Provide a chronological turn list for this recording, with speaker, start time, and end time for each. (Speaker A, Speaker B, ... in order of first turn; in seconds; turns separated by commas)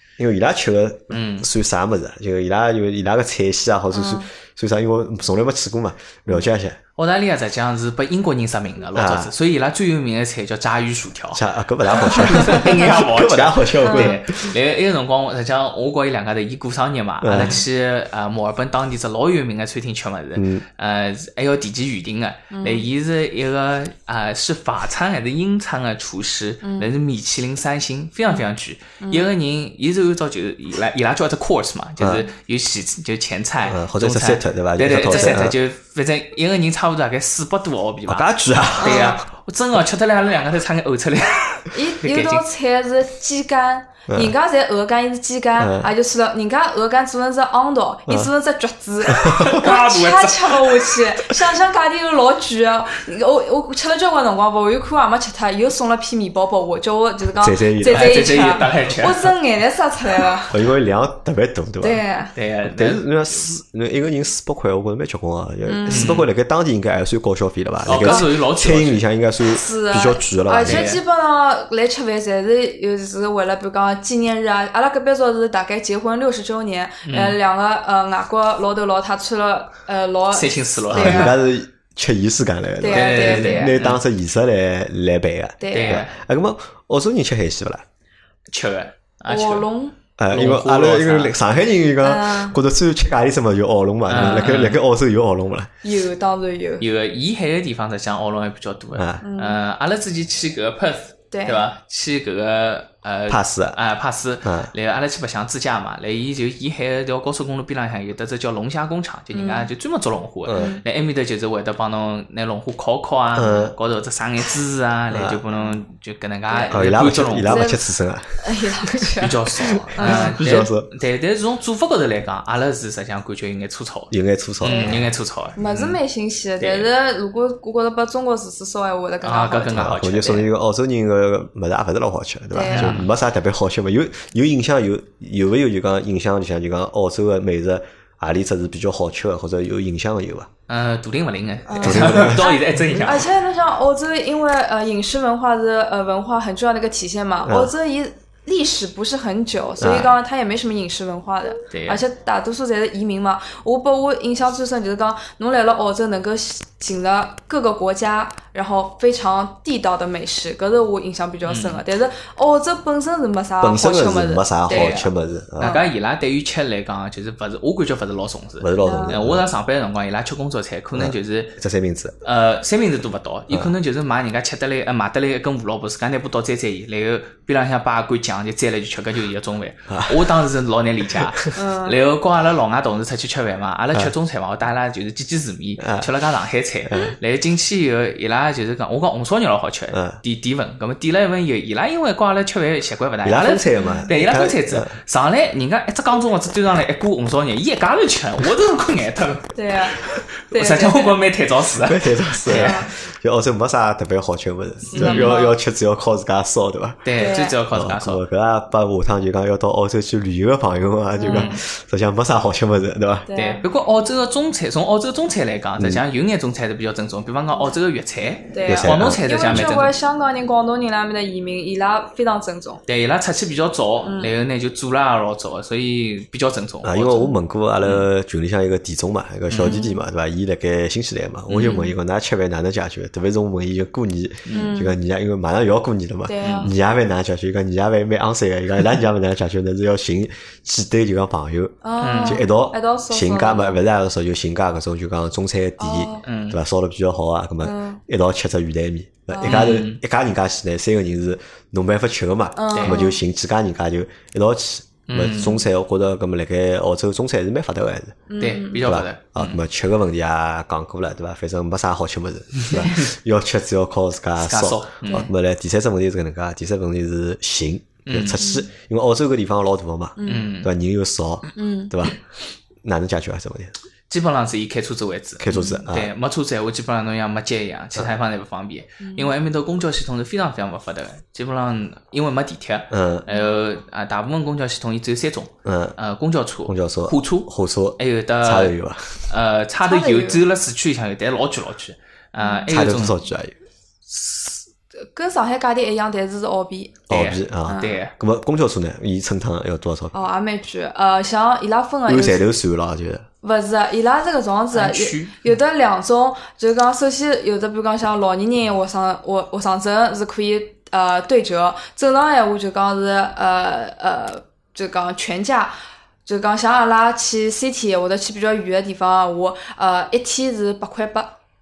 Speaker A: 0.2-6.8, Speaker B: 1.1-1.5, Speaker C: 3.9-4.3, Speaker B: 7.0-11.4, Speaker A: 8.9-9.3, Speaker A: 11.3-14.6, Speaker B: 12.0-42.4, Speaker C: 13.8-14.2, Speaker A: 17.2-17.6, Speaker A: 20.4-20.6, Speaker C: 22.5-22.9, Speaker C: 29.0-29.3, Speaker A: 32.0-32.3, Speaker A: 33.6-35.6, Speaker C: 35.1-35.4, Speaker A: 38.1-39.2, Speaker C: 38.8-39.2, Speaker C: 41.7-60.5, Speaker A: 44.1-44.3, Speaker A: 45.6-45.9, Speaker A: 49.2-49.6, Speaker B: 49.3-51.1, Speaker A: 57.4-58.3, Speaker B: 57.9-59.3, Speaker A: 60.5-62.0, Speaker C: 61.8-62.3, Speaker B: 62.4-63.1, Speaker A: 62.6-70.9, Speaker C: 65.7-66.1, Speaker B: 65.9-66.3, Speaker B: 67.9-69.0, Speaker C: 68.0-68.3, Speaker C: 69.5-81.4, Speaker B: 70.7-71.0, Speaker B: 77.0-77.4, Speaker B: 80.3-81.4, Speaker A: 80.9-87.8, Speaker C: 82.8-83.8, Speaker B: 82.9-84.0, Speaker C: 85.6-86.0, Speaker B: 85.7-86.2, Speaker B: 88.5-89.7, Speaker C: 89.3-90.0, Speaker A: 90.2-95.7, Speaker B: 90.3-91.4, Speaker C: 92.0-92.6, Speaker B: 94.1-94.8, Speaker C: 95.8-96.8, Speaker B: 96.8-117.6, Speaker A: 99.0-99.2, Speaker C: 99.2-99.6, Speaker C: 101.3-101.7, Speaker A: 103.3-103.8, Speaker A: 104.4-104.7, Speaker C: 109.3-109.7, Speaker A: 110.5-110.8, Speaker C: 110.6-110.8, Speaker A: 113.4-113.7, Speaker A: 115.1-115.4, Speaker C: 116.5-116.8, Speaker A: 116.7-119.1, Speaker C: 117.5-117.8, Speaker C: 118.4-119.4, Speaker B: 119.2-126.0, Speaker A: 119.6-120.9, Speaker C: 120.0-120.4, Speaker A: 124.1-125.1, Speaker C: 124.7-125.1, Speaker C: 125.6-130.0, Speaker B: 126.6-126.9, Speaker B: 129.2-130.5, Speaker A: 129.7-140.5, Speaker C: 132.5-133.0, Speaker B: 132.7-133.1, Speaker B: 140.7-143.3, Speaker C: 141.7-165.0, Speaker A: 141.8-142.5, Speaker A: 147.4-147.7, Speaker A: 149.8-150.1, Speaker B: 151.7-152.0, Speaker B: 161.5-161.8, Speaker A: 163.6-165.8, Speaker B: 164.7-171.6, Speaker C: 165.6-165.9, Speaker A: 168.6-169.4, Speaker C: 168.8-169.2, Speaker A: 170.9-172.2, Speaker B: 172.2-202.9, Speaker A: 179.9-180.3, Speaker C: 181.5-182.0, Speaker A: 185.8-186.1, Speaker A: 186.9-187.1, Speaker A: 189.9-190.2, Speaker A: 193.2-194.9, Speaker C: 199.6-201.2, Speaker A: 201.8-213.3, Speaker C: 202.5-202.9, Speaker C: 204.9-205.6, Speaker B: 204.9-205.4, Speaker B: 207.1-208.2, Speaker C: 207.2-207.6, Speaker C: 211.2-211.6, Speaker B: 211.3-211.6, Speaker C: 213.3-213.6, Speaker B: 213.3-219.9, Speaker C: 218.5-222.8, Speaker A: 218.7-219.6, Speaker B: 222.9-227.3, Speaker C: 224.0-224.3, Speaker A: 226.8-258.2, Speaker B: 229.5-229.8, Speaker C: 229.6-230.0, Speaker B: 231.5-231.9, Speaker C: 231.6-231.9, Speaker B: 234.5-234.7, Speaker C: 234.5-235.0, Speaker C: 236.3-236.7, Speaker B: 236.4-236.7, Speaker C: 241.8-243.8, Speaker B: 242.0-242.4, Speaker C: 245.8-246.3, Speaker B: 246.2-246.6, Speaker C: 247.6-248.0, Speaker C: 249.3-249.7, Speaker B: 249.4-250.0, Speaker C: 252.6-253.2, Speaker B: 255.1-255.6, Speaker C: 258.3-258.9, Speaker B: 258.4-259.6, Speaker A: 258.8-272.2, Speaker B: 262.6-263.1, Speaker B: 264.4-265.3, Speaker B: 268.1-268.4, Speaker C: 268.4-268.7, Speaker C: 270.2-270.5, Speaker B: 270.2-270.7, Speaker C: 271.6-271.9, Speaker A: 272.8-273.7, Speaker B: 274.1-288.8, Speaker A: 275.4-276.1, Speaker C: 279.0-279.3, Speaker A: 282.9-283.3, Speaker A: 285.6-286.0, Speaker A: 286.7-289.2, Speaker B: 289.3-293.2, Speaker C: 289.8-290.4, Speaker C: 292.4-292.7, Speaker A: 292.7-293.5, Speaker C: 295.1-297.0, Speaker B: 297.1-298.1, Speaker A: 297.1-300.1, Speaker C: 297.7-298.0, Speaker C: 300.1-302.4, Speaker A: 302.1-303.3, Speaker C: 303.4-315.7, Speaker B: 304.7-305.4, Speaker C: 316.2-321.4